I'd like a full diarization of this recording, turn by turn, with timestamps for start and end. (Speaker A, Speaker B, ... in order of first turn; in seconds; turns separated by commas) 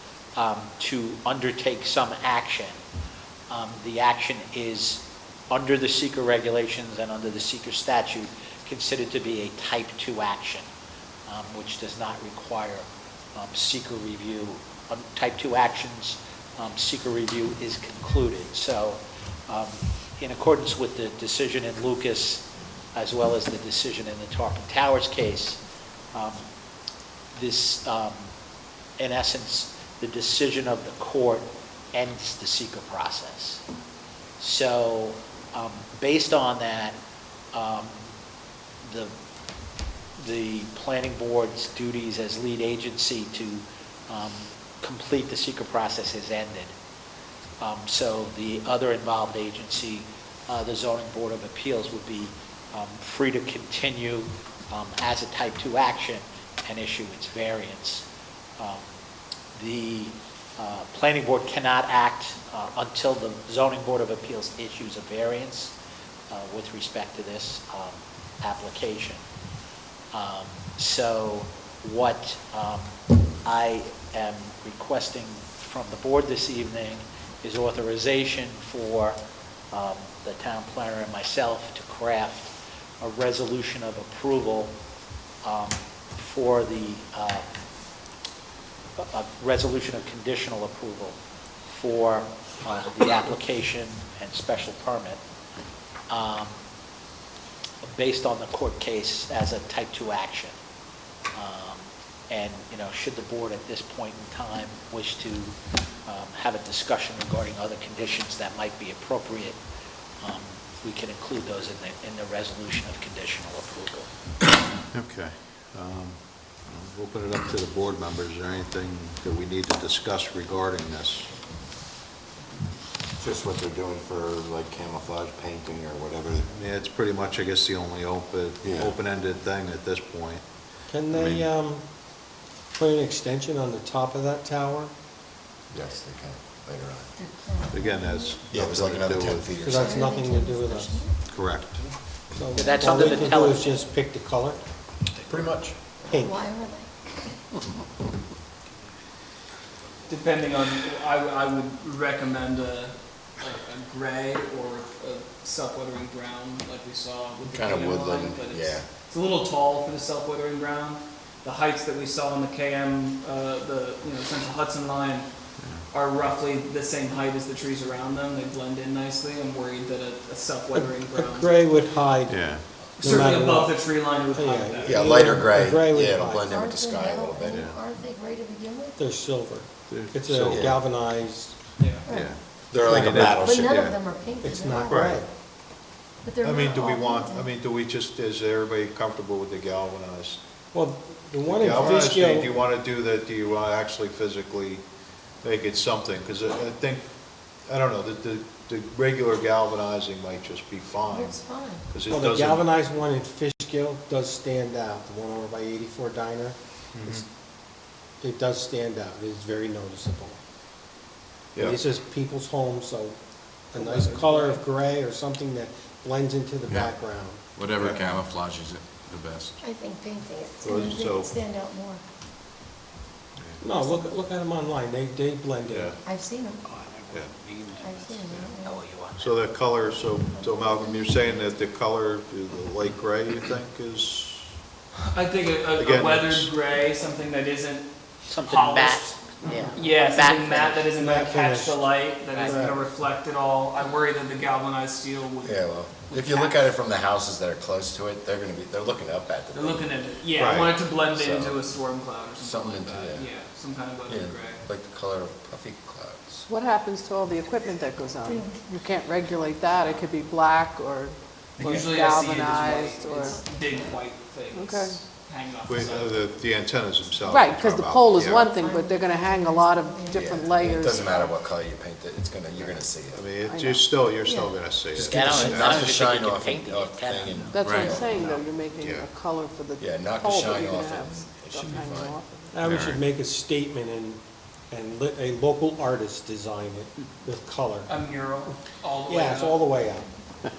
Speaker A: 0.3-2.8, Speaker A: 3.5-10.7, Speaker A: 11.3-25.6, Speaker A: 26.1-26.4, Speaker A: 27.3-28.3, Speaker A: 29.0-33.6, Speaker A: 34.4-37.0, Speaker A: 37.5-38.1, Speaker A: 38.8-39.1, Speaker A: 40.2-46.7, Speaker A: 47.6-58.0, Speaker A: 58.6-58.8, Speaker A: 59.5-65.7, Speaker A: 66.3-69.2, Speaker A: 70.1-79.2, Speaker A: 79.7-84.7, Speaker A: 85.4-87.5, Speaker A: 89.0-95.2, Speaker A: 96.1-96.5, Speaker A: 97.8-100.5, Speaker A: 101.3-109.6, Speaker A: 110.2-114.1, Speaker B: 114.9-121.3, Speaker C: 123.2-126.5, Speaker B: 126.5-130.6, Speaker C: 128.6-128.9, Speaker D: 130.9-131.9, Speaker B: 131.1-131.5, Speaker D: 132.7-134.9, Speaker C: 135.7-137.1, Speaker E: 137.2-138.4, Speaker B: 137.7-139.5, Speaker C: 138.5-140.0, Speaker D: 139.6-141.0, Speaker E: 139.7-141.2, Speaker B: 141.2-141.8, Speaker D: 142.3-144.6, Speaker A: 142.6-143.7, Speaker E: 142.8-143.3, Speaker C: 145.2-145.8, Speaker D: 146.1-146.4, Speaker E: 146.1-147.4, Speaker F: 150.1-165.3, Speaker C: 157.4-158.9, Speaker B: 165.6-165.8, Speaker F: 165.9-171.6, Speaker D: 170.7-176.5, Speaker B: 172.3-172.6, Speaker F: 173.0-175.2, Speaker C: 174.8-177.7, Speaker E: 176.4-179.0, Speaker B: 177.5-177.8, Speaker D: 179.0-181.6, Speaker B: 179.9-180.8, Speaker C: 180.5-180.8, Speaker F: 181.8-182.1, Speaker E: 182.1-182.4, Speaker B: 182.1-184.0, Speaker C: 182.7-183.7, Speaker D: 182.8-183.4, Speaker E: 183.3-185.2, Speaker D: 184.4-185.3, Speaker B: 184.9-185.2, Speaker E: 186.2-187.5, Speaker B: 186.4-190.4, Speaker D: 190.7-192.5, Speaker B: 191.4-194.8, Speaker B: 195.4-197.1, Speaker B: 197.6-202.7, Speaker E: 201.1-201.9, Speaker D: 202.1-207.2, Speaker B: 206.9-207.2, Speaker D: 208.2-210.4, Speaker B: 211.5-211.8, Speaker D: 211.6-217.5, Speaker F: 213.7-214.6, Speaker G: 217.6-219.5, Speaker B: 217.7-218.2, Speaker E: 219.6-222.0, Speaker B: 220.6-221.3, Speaker B: 223.4-223.6, Speaker D: 223.6-225.9, Speaker E: 223.8-224.1, Speaker B: 225.7-226.0, Speaker E: 226.0-226.6, Speaker A: 226.7-229.3, Speaker E: 227.8-228.8, Speaker B: 229.2-234.6, Speaker F: 235.0-239.1, Speaker B: 235.8-236.5, Speaker A: 238.3-240.9, Speaker F: 239.7-245.6, Speaker D: 240.9-242.8, Speaker C: 245.4-250.0, Speaker F: 246.1-246.5, Speaker F: 249.5-254.6, Speaker B: 250.3-250.7, Speaker C: 250.8-251.6, Speaker C: 252.4-253.3, Speaker C: 254.1-256.4, Speaker H: 256.5-263.4, Speaker E: 258.2-258.7, Speaker F: 261.6-266.2, Speaker E: 263.2-264.0, Speaker H: 264.5-265.0, Speaker B: 265.7-268.5, Speaker H: 267.2-271.3, Speaker E: 268.5-270.3, Speaker C: 270.1-273.2, Speaker B: 272.6-275.9, Speaker H: 273.4-273.9, Speaker E: 274.2-275.6, Speaker A: 274.9-277.5, Speaker C: 275.2-278.4, Speaker H: 277.5-282.6, Speaker G: 277.6-278.0, Speaker B: 278.8-279.1, Speaker C: 279.8-282.2, Speaker D: 282.5-287.9, Speaker B: 282.6-283.0, Speaker F: 287.9-289.6, Speaker D: 289.1-290.1